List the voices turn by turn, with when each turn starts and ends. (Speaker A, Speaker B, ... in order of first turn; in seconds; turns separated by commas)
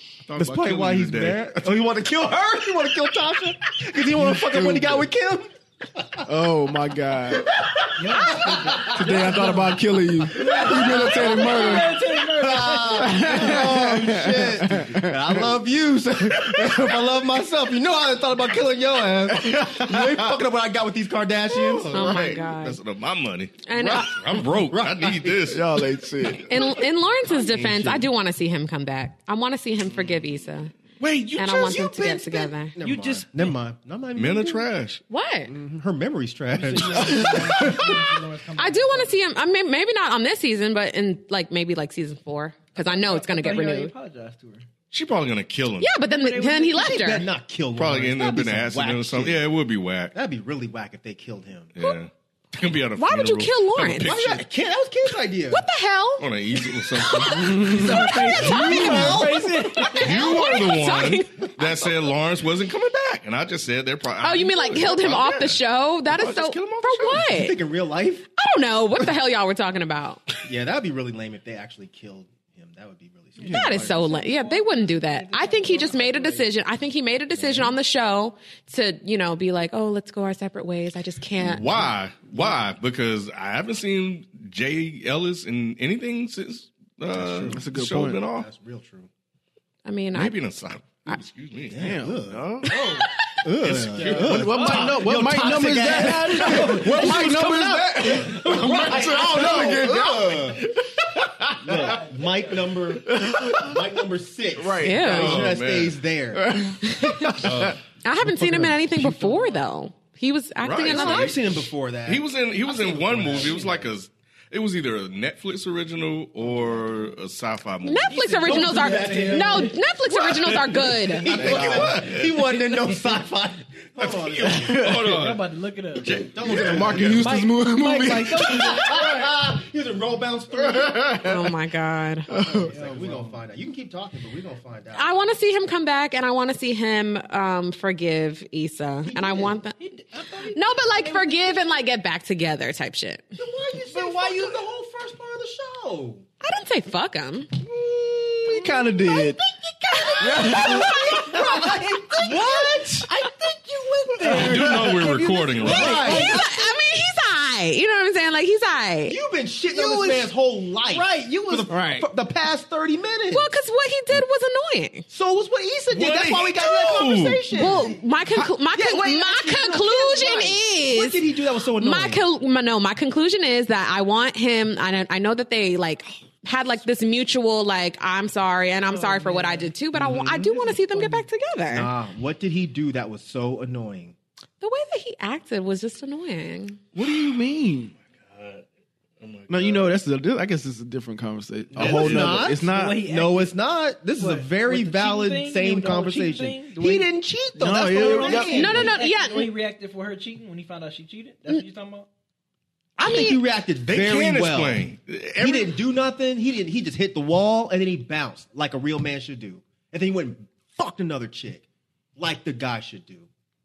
Speaker A: 0.2-1.8, Speaker B: 0.4-6.2, Speaker C: 4.2-5.1, Speaker C: 6.2-7.5, Speaker B: 7.6-9.7, Speaker D: 8.0-9.6, Speaker C: 8.4-12.0, Speaker D: 10.3-13.6, Speaker B: 10.4-22.3, Speaker C: 12.9-15.6, Speaker C: 16.4-16.9, Speaker C: 19.3-20.3, Speaker C: 21.6-22.2, Speaker A: 21.7-25.6, Speaker E: 21.9-22.8, Speaker E: 23.6-24.3, Speaker B: 23.8-25.5, Speaker C: 25.4-26.8, Speaker E: 26.5-30.7, Speaker C: 27.3-28.1, Speaker A: 31.0-31.8, Speaker E: 31.3-32.7, Speaker B: 31.6-34.6, Speaker D: 32.8-33.5, Speaker A: 34.1-35.0, Speaker E: 35.1-35.5, Speaker B: 35.5-38.0, Speaker D: 36.5-39.2, Speaker E: 37.6-38.0, Speaker E: 38.6-43.9, Speaker D: 42.8-44.6, Speaker A: 44.9-45.9, Speaker E: 45.8-47.2, Speaker D: 46.0-47.0, Speaker B: 46.7-49.5, Speaker A: 47.8-50.1, Speaker B: 50.1-51.7, Speaker A: 51.7-54.4, Speaker E: 53.0-54.1, Speaker B: 54.0-55.6, Speaker E: 55.5-56.2, Speaker A: 56.2-57.9, Speaker E: 57.0-57.6, Speaker C: 57.4-58.0, Speaker D: 57.7-60.1, Speaker B: 57.8-59.8, Speaker E: 58.3-61.5, Speaker A: 59.9-65.6, Speaker E: 64.2-67.6, Speaker A: 66.2-67.2, Speaker B: 66.2-68.3, Speaker E: 68.4-70.2, Speaker B: 70.4-73.9, Speaker D: 73.4-76.5, Speaker C: 73.4-73.8, Speaker E: 73.5-81.7, Speaker A: 81.4-88.5, Speaker B: 87.1-89.1, Speaker C: 87.5-88.2, Speaker E: 89.8-90.3, Speaker A: 90.1-93.0, Speaker B: 91.7-92.6, Speaker C: 91.7-92.6, Speaker D: 92.7-93.1, Speaker B: 93.4-100.6, Speaker A: 93.6-94.4, Speaker D: 94.0-97.6, Speaker C: 94.0-102.0, Speaker D: 98.1-99.6, Speaker B: 101.6-106.7, Speaker D: 101.7-102.7, Speaker C: 103.0-104.0, Speaker C: 104.5-105.5, Speaker E: 104.8-105.4, Speaker A: 105.0-106.0, Speaker C: 106.3-109.2, Speaker E: 106.8-107.3, Speaker A: 107.4-107.8, Speaker E: 108.0-111.3, Speaker D: 109.3-109.6, Speaker A: 110.6-111.4, Speaker B: 110.8-113.9, Speaker A: 112.0-118.2, Speaker B: 116.4-117.0, Speaker E: 117.8-121.3, Speaker D: 118.0-119.8, Speaker B: 118.4-124.9, Speaker A: 121.3-122.5, Speaker C: 121.4-122.1, Speaker A: 124.0-127.2, Speaker C: 124.4-125.1, Speaker D: 124.9-126.2, Speaker B: 126.0-127.3, Speaker C: 126.4-128.9, Speaker D: 127.0-129.2, Speaker B: 128.4-131.5, Speaker E: 131.2-132.3, Speaker B: 132.3-135.2, Speaker C: 132.3-132.7, Speaker D: 132.7-133.4, Speaker E: 134.9-139.8, Speaker D: 139.3-141.6, Speaker E: 140.5-143.4, Speaker B: 143.4-146.2, Speaker D: 143.8-144.6, Speaker E: 146.4-147.5, Speaker B: 147.6-156.4, Speaker C: 148.5-149.4, Speaker E: 149.9-151.4, Speaker C: 150.2-151.0, Speaker D: 150.8-153.3, Speaker D: 153.8-156.7, Speaker A: 154.2-156.2, Speaker E: 155.7-159.2, Speaker B: 159.1-163.5, Speaker D: 159.7-160.3, Speaker D: 160.9-161.8, Speaker C: 161.7-162.1, Speaker E: 163.3-165.0, Speaker B: 165.1-172.2, Speaker A: 165.9-167.5, Speaker E: 167.5-171.2, Speaker E: 171.8-181.9, Speaker D: 178.8-179.7, Speaker B: 179.9-181.2, Speaker B: 181.7-184.2, Speaker E: 184.6-186.8, Speaker C: 186.9-187.9, Speaker A: 188.1-188.6, Speaker A: 189.2-189.9, Speaker C: 189.5-193.0, Speaker B: 191.7-199.0, Speaker A: 191.8-192.4, Speaker D: 192.6-193.6, Speaker D: 194.1-197.1, Speaker C: 197.6-198.9, Speaker D: 197.9-202.1, Speaker E: 198.5-199.5, Speaker E: 203.0-203.4, Speaker B: 203.0-204.9, Speaker A: 203.9-205.8, Speaker B: 205.4-213.3